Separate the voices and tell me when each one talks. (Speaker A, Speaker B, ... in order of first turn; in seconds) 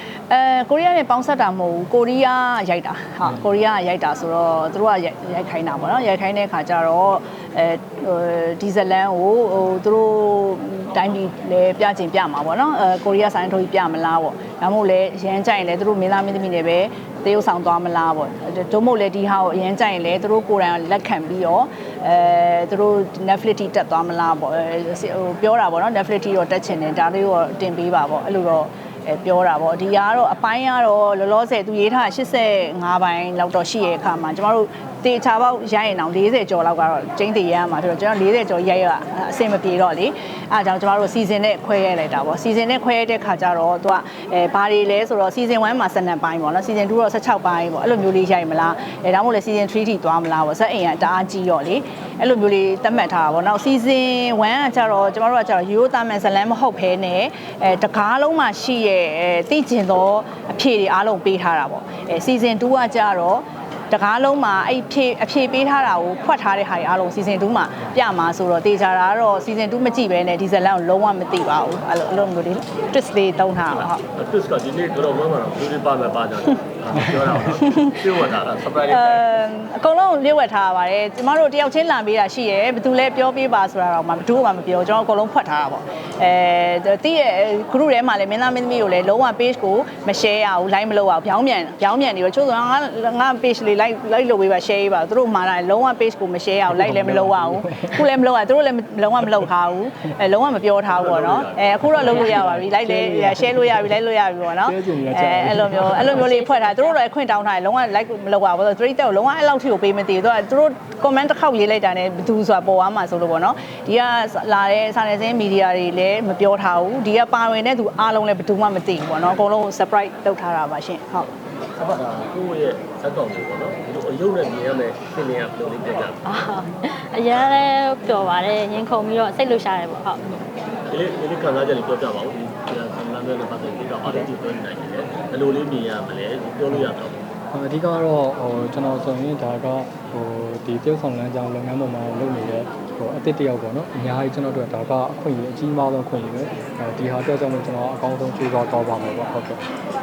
Speaker A: 0.3-74.0, 78.9-121.3
Speaker B: 73.7-79.2, 100.9-102.7, 121.8-126.2, 130.9-137.2
Speaker C: 96.7-98.1, 102.0-104.0, 104.6-106.3, 137.5-149.6
Speaker D: 106.0-107.0, 126.3-130.2